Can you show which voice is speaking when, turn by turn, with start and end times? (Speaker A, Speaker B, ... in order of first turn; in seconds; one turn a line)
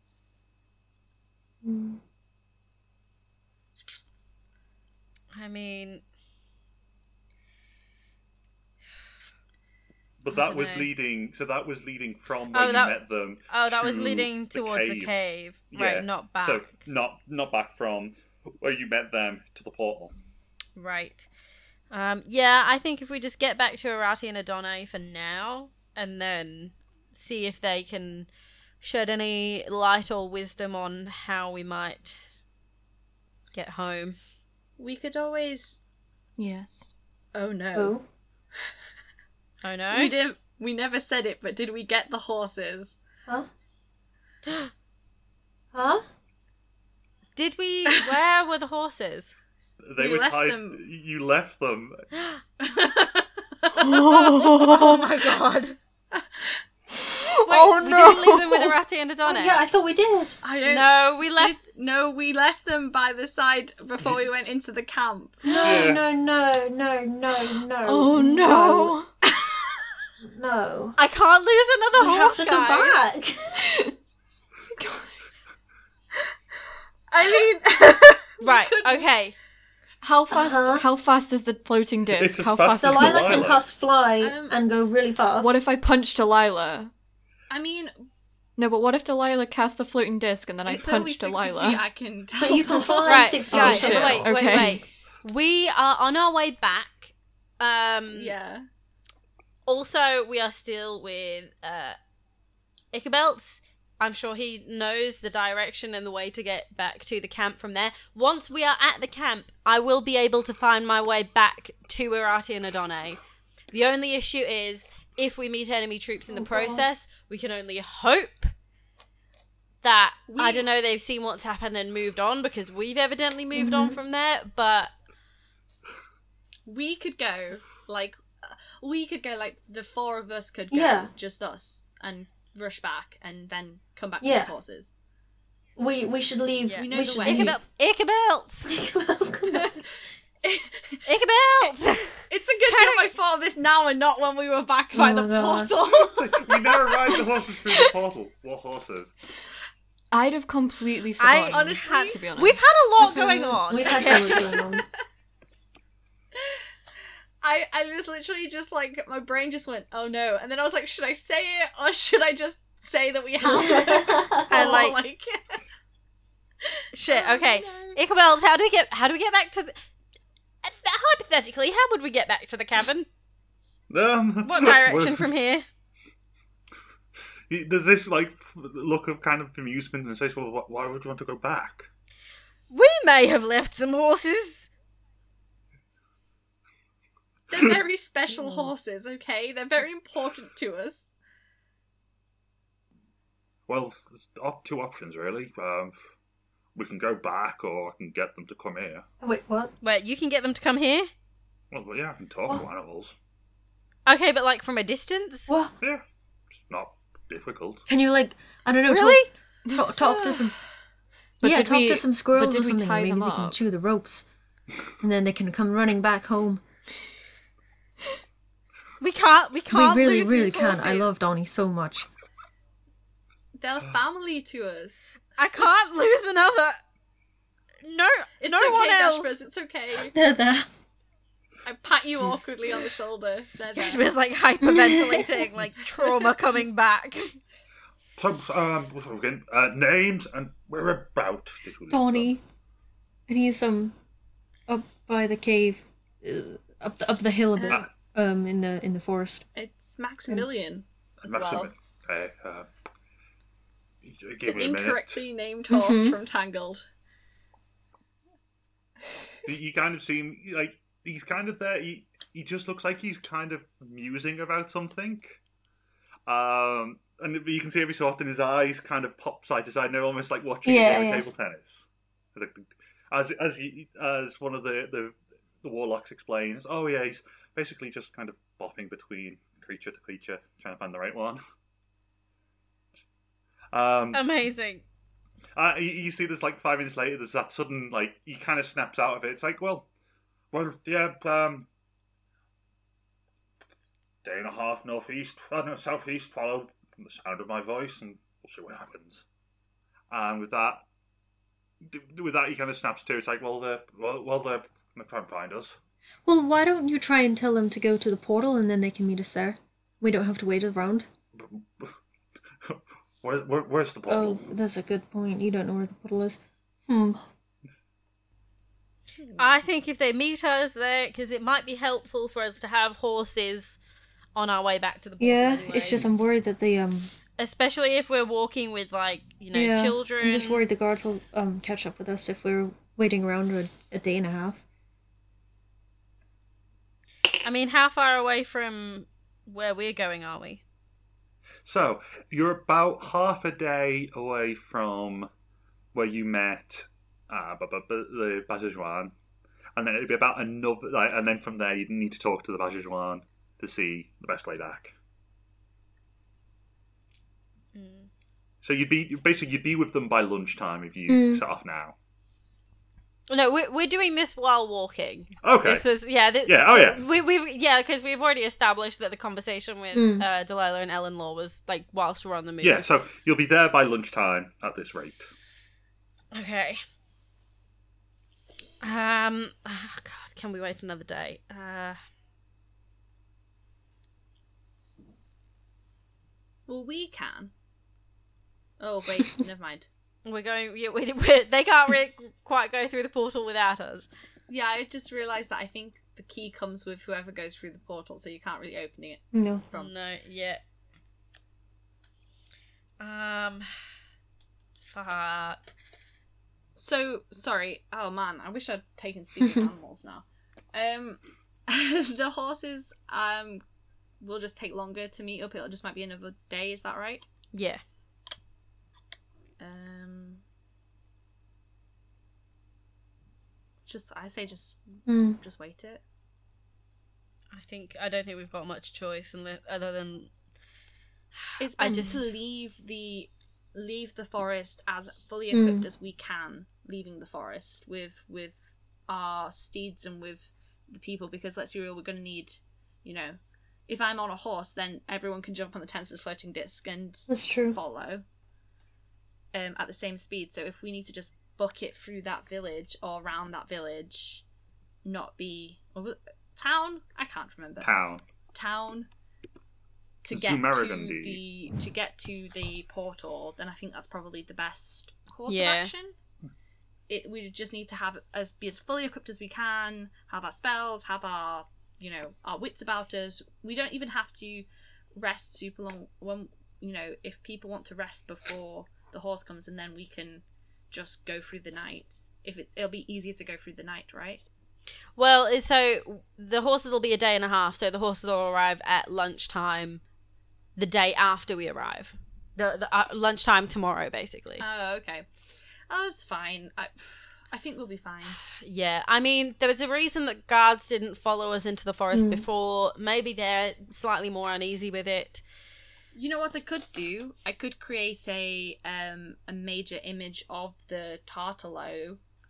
Speaker A: 1.6-2.0
Speaker B: 5.3-6.0
Speaker C: 10.2-15.1
Speaker B: 10.3-10.9
Speaker B: 12.5-16.8
Speaker C: 15.7-20.1
Speaker B: 20.8-21.3
Speaker B: 21.9-28.3
Speaker B: 28.8-32.3
Speaker B: 33.5-34.2
Speaker D: 34.8-35.8
Speaker E: 36.4-36.9
Speaker D: 37.3-38.0
Speaker A: 37.7-38.0
Speaker B: 39.6-40.1
Speaker D: 39.9-43.0
Speaker A: 45.7-46.0
Speaker B: 47.4-49.4
Speaker C: 49.9-52.0
Speaker D: 50.0-50.8
Speaker D: 52.6-54.6
Speaker E: 53.8-55.0
Speaker B: 54.7-55.8
Speaker D: 56.1-56.6
Speaker E: 57.3-58.6
Speaker B: 57.5-59.6
Speaker A: 59.3-60.4
Speaker D: 60.4-65.9
Speaker B: 60.6-61.6
Speaker A: 65.4-69.0
Speaker C: 65.6-66.0
Speaker E: 67.9-69.1
Speaker D: 69.3-69.6
Speaker A: 70.2-71.0
Speaker B: 71.0-73.0
Speaker A: 72.0-73.7
Speaker D: 74.8-75.0
Speaker D: 77.1-79.1
Speaker B: 78.4-79.3
Speaker E: 80.0-83.2
Speaker A: 80.3-80.9
Speaker C: 82.1-83.6
Speaker A: 82.8-85.6
Speaker D: 84.2-84.6
Speaker E: 85.4-86.9
Speaker D: 87.5-88.1
Speaker E: 88.6-91.8
Speaker D: 90.7-94.0
Speaker A: 92.4-94.8
Speaker B: 93.1-98.3
Speaker E: 93.5-94.8
Speaker D: 98.1-98.7
Speaker B: 99.7-102.0
Speaker B: 102.9-113.2
Speaker B: 113.7-118.5
Speaker A: 116.3-116.8
Speaker B: 119.8-124.9
Speaker D: 120.3-120.7
Speaker A: 123.5-124.0
Speaker D: 126.7-134.9
Speaker A: 130.7-131.1
Speaker A: 134.2-134.5
Speaker A: 135.8-137.6
Speaker B: 136.7-138.8
Speaker D: 136.8-137.6
Speaker A: 138.7-139.8
Speaker D: 139.5-139.8
Speaker D: 140.4-141.0
Speaker B: 141.1-143.1
Speaker D: 142.3-147.9
Speaker A: 144.9-145.7
Speaker B: 145.7-146.2
Speaker C: 146.1-149.1
Speaker E: 150.1-152.6
Speaker B: 151.2-154.4
Speaker D: 151.5-152.2
Speaker A: 153.0-154.8
Speaker D: 153.8-154.6
Speaker D: 157.4-165.6
Speaker A: 163.5-164.4
Speaker B: 164.5-165.0
Speaker D: 166.6-168.0
Speaker B: 166.9-169.9
Speaker B: 170.6-173.1
Speaker C: 173.9-175.3
Speaker B: 174.4-175.7
Speaker C: 177.5-181.9
Speaker B: 182.7-184.7
Speaker D: 187.5-191.1
Speaker C: 193.7-196.0
Speaker C: 196.8-199.1
Speaker A: 199.2-199.7
Speaker B: 199.8-201.1
Speaker C: 201.7-203.1
Speaker B: 204.1-205.6
Speaker A: 205.5-205.7
Speaker C: 206.6-207.8
Speaker A: 207.9-210.6
Speaker B: 208.9-209.3
Speaker D: 210.1-210.5
Speaker E: 211.4-213.6
Speaker A: 211.4-214.3
Speaker A: 215.0-216.6
Speaker B: 219.0-220.4
Speaker A: 219.7-222.1
Speaker D: 220.1-221.1
Speaker D: 223.6-225.2
Speaker B: 225.4-226.8
Speaker B: 227.8-229.4
Speaker D: 228.4-230.2
Speaker A: 230.1-230.7
Speaker D: 231.7-234.1
Speaker B: 233.7-237.4
Speaker A: 234.6-235.3
Speaker C: 238.2-242.3
Speaker A: 241.9-242.4
Speaker A: 243.3-243.9
Speaker A: 244.7-249.4
Speaker D: 247.6-247.8
Speaker D: 249.6-251.7
Speaker C: 251.2-252.7
Speaker C: 254.0-255.2
Speaker D: 254.4-256.9
Speaker A: 255.7-256.2
Speaker C: 259.5-265.4
Speaker C: 266.3-281.4
Speaker A: 270.6-271.3
Speaker C: 283.7-284.2
Speaker B: 284.1-284.8
Speaker C: 285.6-289.9
Speaker C: 290.5-291.7
Speaker C: 294.2-299.2
Speaker C: 300.1-300.8
Speaker C: 301.8-305.8
Speaker A: 306.3-311.1
Speaker C: 311.4-312.0
Speaker C: 312.6-314.4
Speaker A: 314.1-317.3
Speaker D: 319.2-319.5
Speaker B: 319.4-323.8
Speaker B: 324.4-326.1
Speaker A: 325.2-327.1
Speaker B: 327.4-330.6
Speaker A: 329.5-334.6
Speaker B: 337.4-340.6
Speaker C: 341.7-345.3
Speaker C: 345.9-349.1
Speaker C: 349.8-354.9
Speaker B: 357.8-358.1
Speaker C: 358.6-361.9
Speaker A: 361.1-361.4
Speaker B: 363.3-372.9
Speaker C: 365.4-365.9
Speaker C: 366.5-367.0
Speaker A: 369.9-370.3
Speaker C: 372.6-375.3
Speaker B: 376.3-376.8
Speaker B: 378.8-382.0
Speaker D: 386.7-387.5
Speaker D: 388.8-389.9
Speaker B: 390.2-394.1
Speaker D: 394.5-400.0
Speaker A: 399.3-399.6
Speaker B: 399.7-400.6
Speaker B: 403.0-403.7
Speaker B: 404.9-405.6
Speaker D: 406.8-413.6
Speaker D: 414.2-417.2
Speaker B: 417.5-417.8
Speaker D: 419.6-420.4
Speaker D: 423.9-426.0
Speaker A: 425.1-425.4
Speaker B: 427.5-430.3
Speaker B: 431.4-432.3
Speaker D: 431.6-448.2
Speaker A: 435.5-435.9
Speaker A: 447.3-447.8
Speaker D: 449.5-454.4
Speaker D: 455.0-457.9
Speaker C: 457.8-458.2
Speaker D: 458.5-459.1
Speaker D: 460.2-466.2
Speaker C: 460.3-461.4
Speaker B: 465.5-465.9
Speaker D: 467.1-484.4
Speaker B: 485.2-490.0
Speaker B: 490.8-494.6
Speaker D: 494.6-495.3
Speaker D: 495.9-498.4
Speaker B: 498.5-505.4
Speaker A: 502.1-502.4
Speaker D: 506.1-512.2